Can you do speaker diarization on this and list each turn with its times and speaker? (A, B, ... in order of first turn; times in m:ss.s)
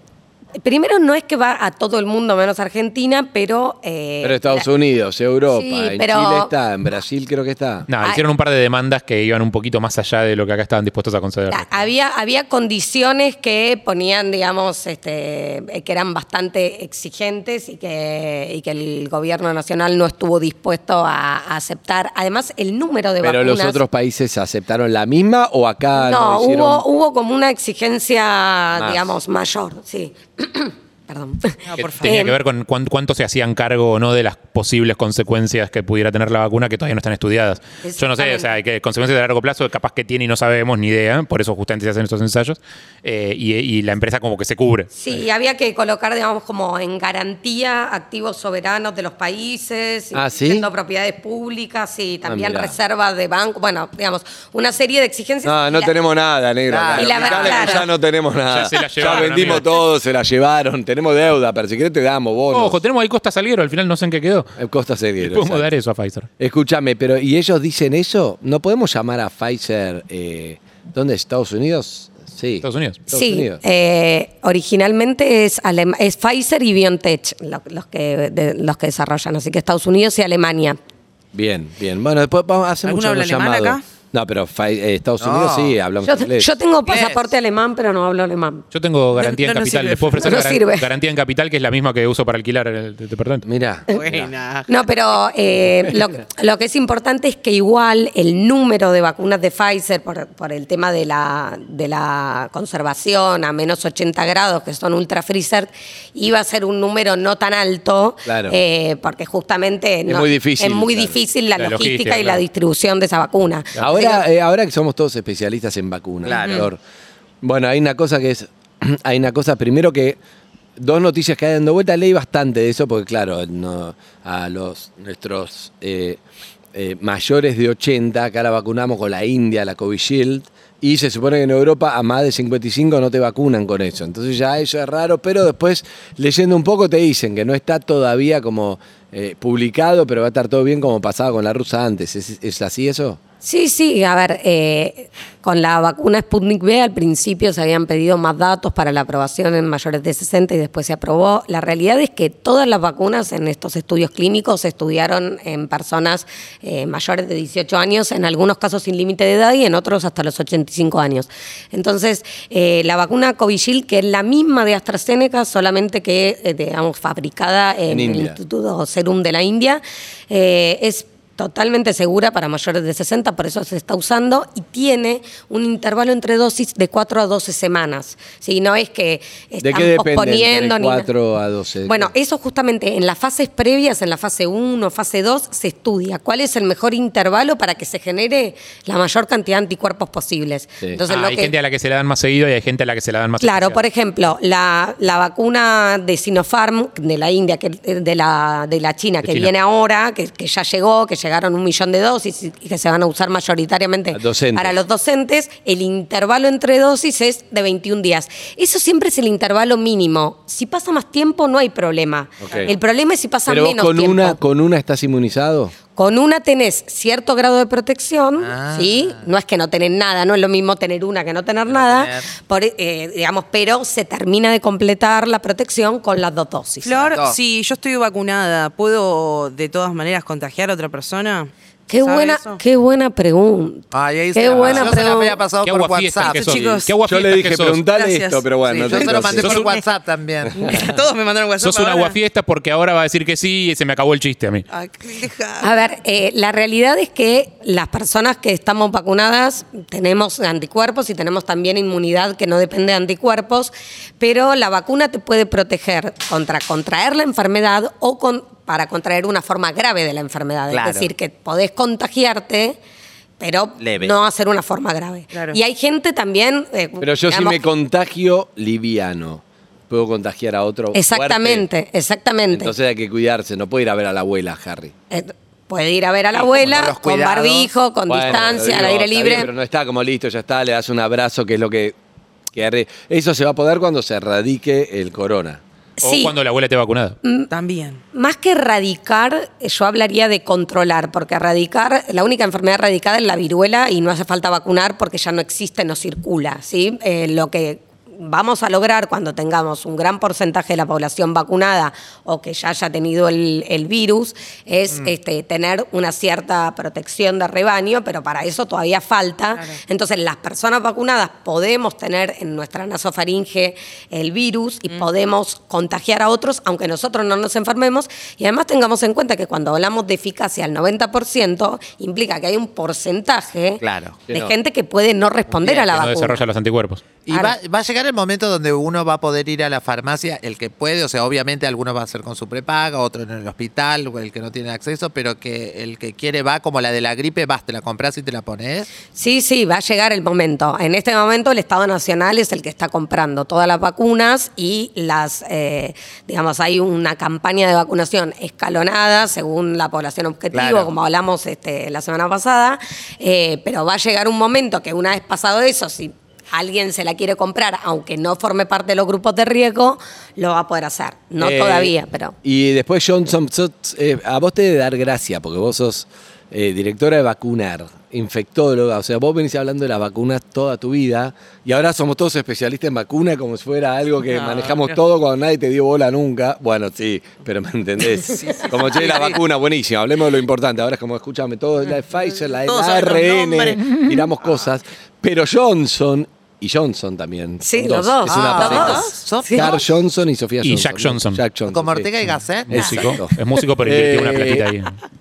0:00.6-0:04.6 A
0:04.2-0:07.9 B
0:05.5-0:06.5 A
0:07.9-0:11.9 C
0:11.5-0:23.8 A
0:23.2-0:26.9 B
0:26.0-0:32.4 A
0:28.8-0:29.2 B
0:31.7-0:32.2 D
0:31.8-0:44.9 C
0:37.8-0:38.5 A
0:44.9-0:55.9 A
0:50.1-0:50.7 B
0:52.3-0:52.8 B
0:55.4-1:02.8 B
0:56.7-0:57.8 E
0:56.9-0:57.9 A
0:58.5-0:59.7 C
0:58.9-0:59.6 E
1:02.5-1:04.5 C
1:04.6-1:05.7 B
1:05.2-1:06.3 C
1:06.4-1:13.6 B
1:12.6-1:13.0 C
1:13.1-1:20.8 A
1:21.3-1:26.5 B
1:22.8-1:23.8 D
1:25.2-1:25.8 E
1:26.0-1:28.6 A
1:26.8-1:27.3 E
1:28.7-1:33.5 C
1:29.2-1:30.5 D
1:30.2-1:30.9 A
1:33.4-1:34.3 B
1:33.9-1:34.9 D
1:34.7-1:54.2 A
1:48.3-1:48.6 B
1:50.1-1:51.2 B
1:51.6-1:52.4 C
1:53.8-1:56.8 B
1:56.2-1:56.7 E
1:57.4-2:00.2 B
2:00.8-2:06.2 B
2:06.7-2:23.2 B
2:23.4-3:01.1 A
2:47.9-2:48.4 B
2:59.6-3:02.1 B
3:01.9-3:11.5 A
3:11.1-3:13.8 C
3:13.4-3:34.4 A
3:19.2-3:19.5 C
3:24.1-3:24.8 B
3:32.4-3:32.8 B
3:33.5-3:35.7 B
3:36.0-3:46.9 A
3:38.4-3:39.2 E
3:41.7-3:42.3 E
3:46.8-3:52.6 D
3:46.9-3:47.4 E
3:51.9-3:55.4 A
3:53.9-3:56.5 E
3:54.5-3:54.9 B
3:55.6-3:57.8 C
3:56.2-3:57.0 D
3:56.5-3:59.6 B
3:57.9-3:59.8 D
3:58.6-4:00.8 E
3:59.3-3:59.8 C
4:00.5-4:02.2 D
4:00.6-4:01.0 B
4:01.6-4:04.6 C
4:04.7-4:05.7 D
4:05.6-4:22.8 A
4:20.7-4:21.1 E
4:23.4-4:27.6 A
4:23.8-4:24.2 E
4:25.3-4:25.6 D
4:27.0-4:31.7 B
4:30.9-4:32.7 A
4:32.5-4:34.9 B
4:35.1-4:39.5 A
4:36.4-4:37.7 E
4:38.1-4:42.0 B
4:42.5-4:45.6 B
4:46.0-4:46.4 A
4:46.0-4:47.2 C
4:47.2-4:47.5 A
4:47.5-4:48.0 D
4:48.1-5:26.5 A
5:09.5-5:09.8 D
5:23.8-5:24.2 E
5:24.3-5:24.6 B
5:25.6-5:27.0 C
5:27.2-5:38.9 E
5:27.3-5:27.6 A
5:39.1-6:02.4 A
5:50.5-5:50.9 E
6:01.4-6:32.1 B
6:14.3-6:15.0 D
6:18.4-6:18.7 A
6:19.0-6:19.2 E
6:22.6-6:23.8 D
6:27.6-6:29.7 A
6:28.3-6:29.8 E
6:28.8-6:29.1 D
6:30.6-6:31.4 C
6:31.7-6:33.2 E
6:32.7-6:34.7 B
6:32.7-6:35.0 C